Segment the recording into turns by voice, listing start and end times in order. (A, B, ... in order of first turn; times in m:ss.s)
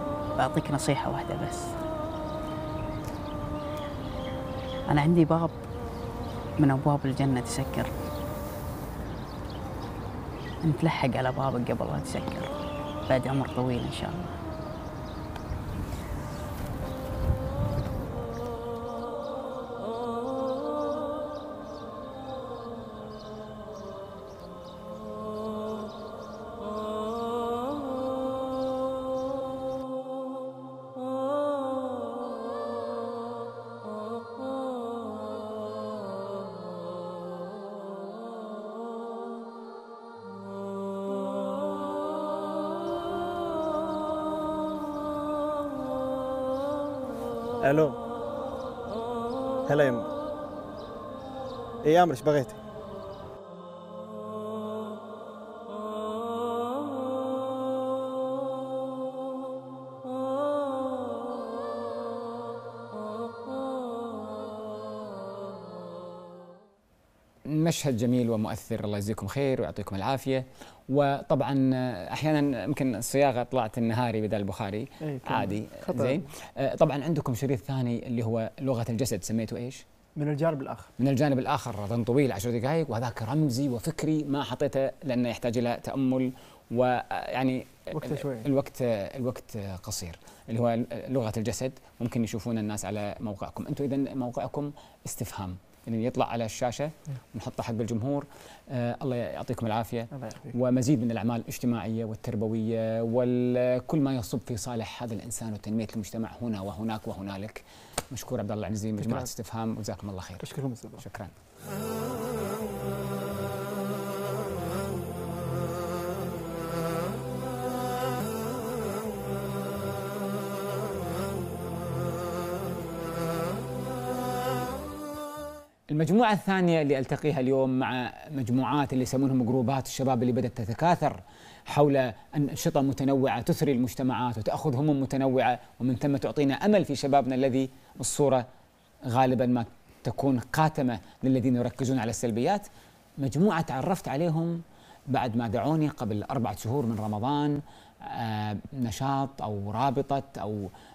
0:00.4-0:01.8 A
0:04.9-0:05.6 A
0:06.6-0:07.9 A
0:10.6-0:12.5 A
0:13.1-0:14.4 A
0:47.6-0:48.0 B
0:49.6-0:50.1 B
0:51.8-0:52.6 B
1:07.4-1:19.8 C
1:15.0-1:16.2 B
1:20.2-1:20.9 B
1:21.0-1:51.3 C
1:27.9-1:28.5 B
1:40.1-1:40.5 B
1:49.0-1:49.3 B
1:50.4-1:51.0 B
2:05.9-2:18.4 C
2:19.1-2:22.7 C
2:23.2-2:30.7 C